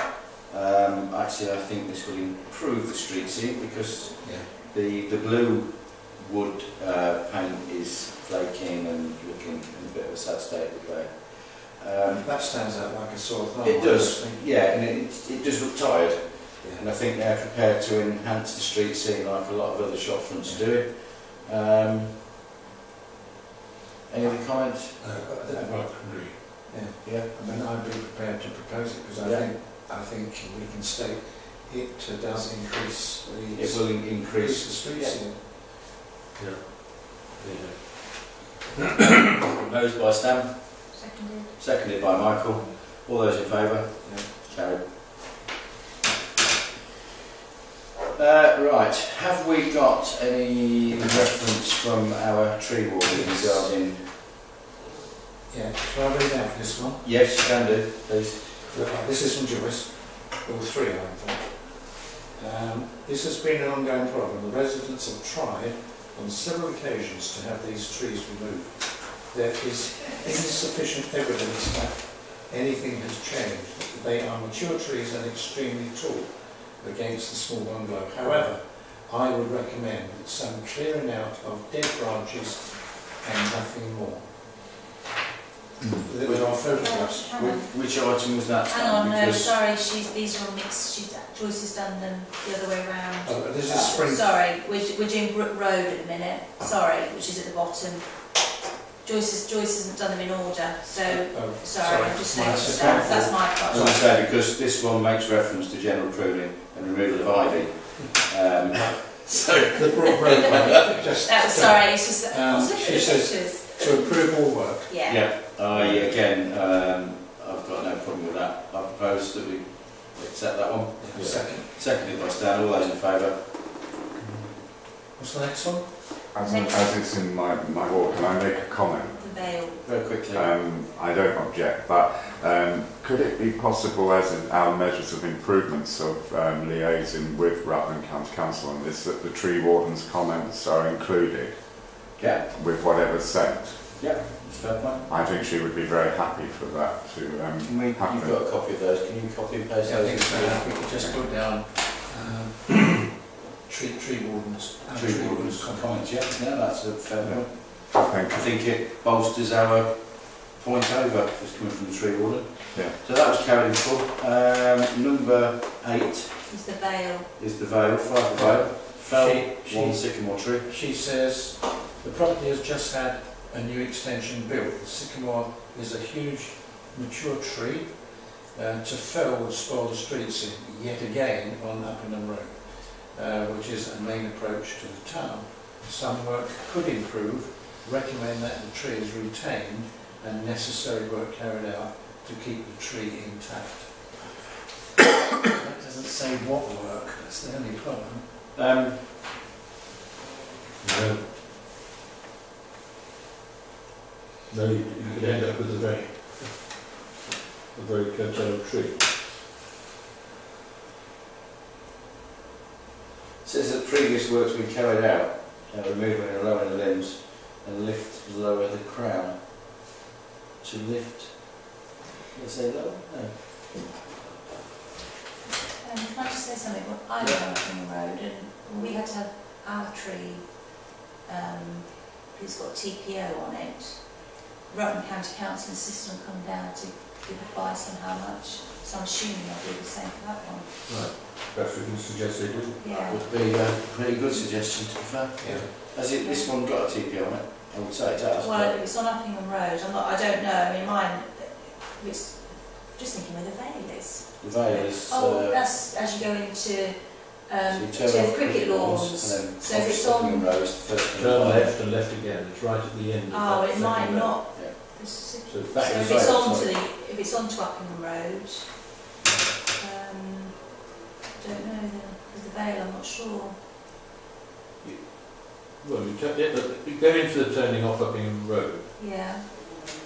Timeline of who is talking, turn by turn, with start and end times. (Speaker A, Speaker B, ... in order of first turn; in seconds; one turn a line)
Speaker A: 0.5-12.3
Speaker B: 4.2-4.5
Speaker B: 12.2-14.4
Speaker A: 13.6-22.2
Speaker A: 24.1-25.0
Speaker B: 25.0-35.4
Speaker C: 25.6-26.3
Speaker A: 27.0-27.3
Speaker A: 29.2-29.5
Speaker A: 33.5-35.2
Speaker C: 36.4-38.3
Speaker A: 39.4-44.9
Speaker D: 40.9-41.9
Speaker B: 44.0-44.3
Speaker A: 48.1-54.1
Speaker B: 53.0-53.7
Speaker B: 55.5-57.1
Speaker A: 57.0-58.6
Speaker B: 58.7-84.2
Speaker B: 86.0-87.4
Speaker A: 86.2-86.6
Speaker D: 86.8-87.8
Speaker A: 87.2-89.5
Speaker D: 88.7-98.4
Speaker B: 93.2-94.2
Speaker D: 99.0-104.0
Speaker B: 100.9-104.0
Speaker A: 102.5-109.3
Speaker B: 108.7-114.9
Speaker D: 109.6-110.2
Speaker D: 111.2-114.2
Speaker D: 114.9-115.3
Speaker A: 115.0-123.5
Speaker C: 115.7-116.2
Speaker B: 121.0-121.7
Speaker C: 124.2-124.5
Speaker B: 125.1-126.1
Speaker E: 126.3-129.2
Speaker D: 126.4-127.0
Speaker D: 129.1-129.8
Speaker A: 129.8-130.5
Speaker E: 130.3-144.1
Speaker A: 142.2-142.5
Speaker A: 144.0-145.0
Speaker E: 145.1-148.4
Speaker A: 147.7-150.9
Speaker B: 149.8-155.9
Speaker A: 154.9-166.5
Speaker E: 157.2-158.5
Speaker D: 166.5-167.3
Speaker A: 167.4-170.7
Speaker B: 168.3-194.2
Speaker B: 195.3-198.3
Speaker A: 198.6-199.1
Speaker C: 200.8-201.2
Speaker C: 204.5-207.0
Speaker C: 207.7-209.1
Speaker A: 213.4-219.8
Speaker A: 220.6-221.8
Speaker A: 222.3-223.8
Speaker D: 225.5-241.3
Speaker C: 240.9-242.8
Speaker D: 242.8-243.3
Speaker A: 243.1-248.8
Speaker B: 245.4-245.7
Speaker D: 246.2-246.5
Speaker D: 248.4-260.6
Speaker A: 254.4-255.6
Speaker A: 257.6-261.8
Speaker C: 261.1-264.4
Speaker D: 263.3-268.9
Speaker C: 265.5-265.9
Speaker A: 265.7-266.7
Speaker D: 269.8-273.6
Speaker C: 274.8-278.9
Speaker D: 279.0-279.4